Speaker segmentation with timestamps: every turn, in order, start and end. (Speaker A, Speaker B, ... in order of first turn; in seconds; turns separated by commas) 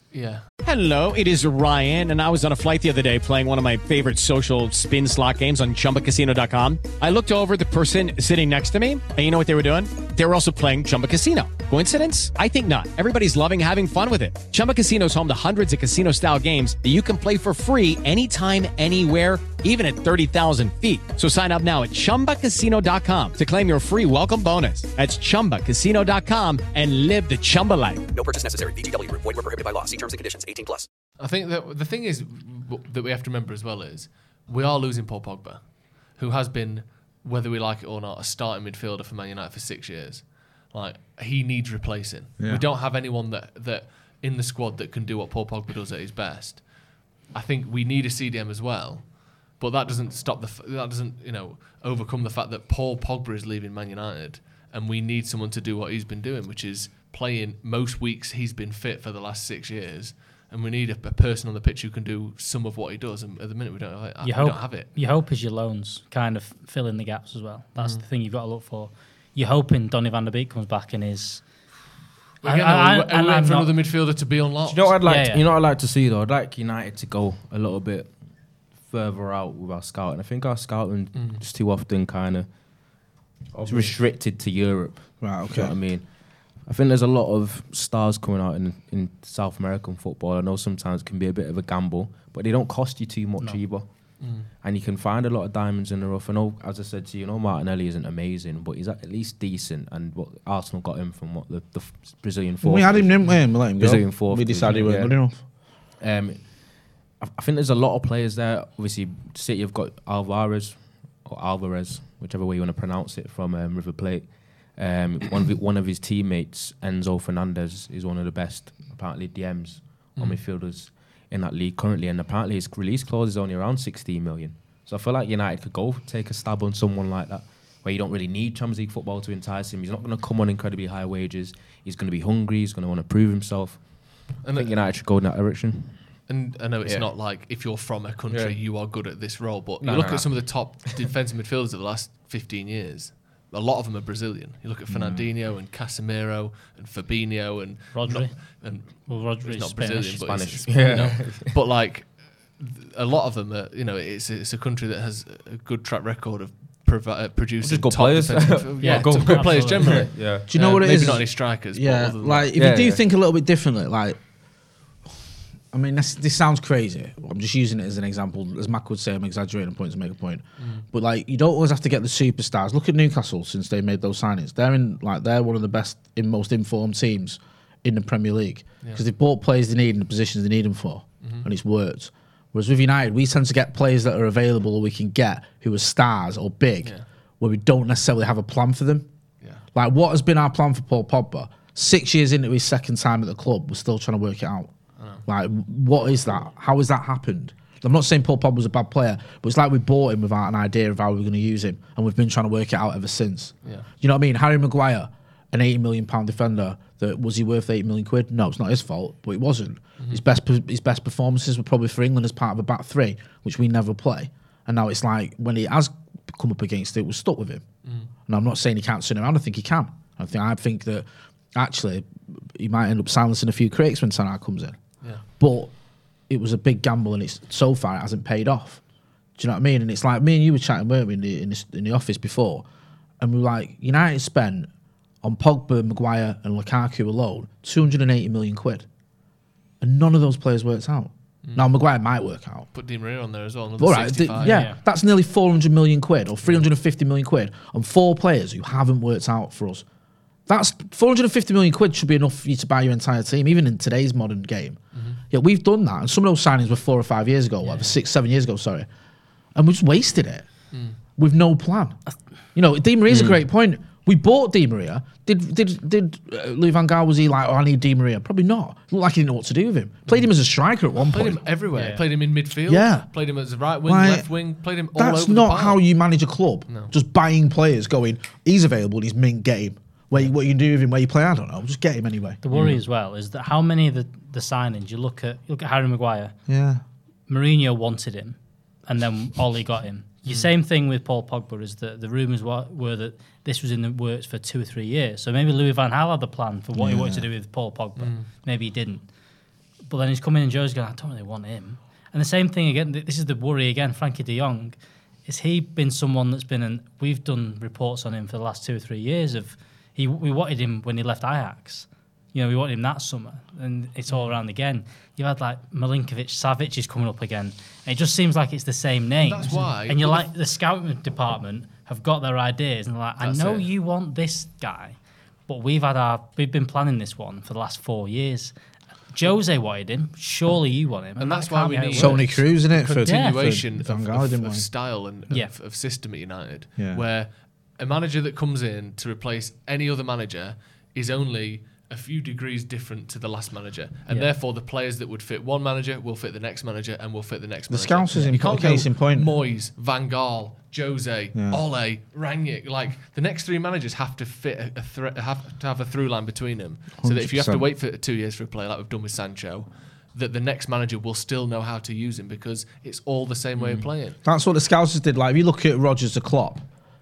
Speaker A: 0.1-0.5, Speaker B: 0.6-28.1, Speaker C: 28.1-30.9, Speaker A: 31.2-64.9, Speaker D: 42.4-42.6, Speaker E: 64.2-71.5, Speaker A: 67.8-68.0, Speaker A: 72.4-75.0, Speaker E: 72.4-73.7, Speaker F: 74.7-82.5, Speaker E: 75.0-75.5, Speaker A: 81.1-81.4, Speaker F: 83.5-105.2, Speaker D: 83.6-84.0, Speaker D: 85.2-85.8, Speaker E: 93.4-93.6, Speaker A: 94.2-94.5, Speaker D: 102.6-105.4, Speaker F: 105.9-136.3, Speaker A: 134.4-134.8, Speaker A: 136.3-162.5, Speaker F: 138.3-138.6, Speaker F: 139.8-140.9, Speaker D: 144.9-145.3, Speaker E: 147.9-150.4, Speaker F: 150.2-151.5, Speaker F: 157.6-160.5, Speaker E: 158.8-160.1, Speaker D: 160.4-164.2, Speaker F: 162.5-163.0, Speaker D: 165.7-189.1, Speaker A: 170.6-170.8, Speaker A: 181.2-181.5, Speaker D: 189.8-194.7, Speaker A: 195.0-195.2, Speaker D: 195.3-217.7, Speaker A: 217.8-218.1, Speaker D: 218.3-225.7, Speaker D: 226.3-228.8, Speaker D: 229.4-232.7, Speaker D: 233.2-234.7, Speaker D: 235.2-238.9, Speaker D: 239.8-242.7, Speaker A: 242.7-244.7, Speaker D: 243.8-249.8, Speaker E: 244.4-244.8, Speaker D: 250.5-254.8, Speaker A: 254.9-255.2, Speaker D: 255.3-258.9, Speaker D: 259.6-262.0, Speaker A: 260.7-261.0, Speaker D: 262.5-271.4, Speaker F: 263.1-263.4, Speaker A: 271.1-275.8, Speaker E: 271.8-272.0, Speaker D: 272.7-273.1, Speaker D: 273.9-274.3, Speaker D: 274.9-282.4, Speaker E: 282.4-286.4, Speaker F: 282.5-282.8, Speaker D: 286.5-286.8, Speaker E: 287.3-299.1, Speaker D: 296.8-297.3, Speaker A: 298.0-298.3, Speaker E: 299.9-328.5, Speaker A: 319.2-320.3, Speaker A: 323.2-323.7, Speaker E: 329.1-332.3, Speaker A: 331.2-364.2, Speaker D: 331.9-334.7, Speaker E: 333.1-333.4, Speaker D: 336.8-337.1, Speaker D: 347.7-349.3, Speaker D: 351.3-351.6, Speaker D: 357.0-357.7, Speaker F: 363.6-363.9, Speaker D: 364.2-366.6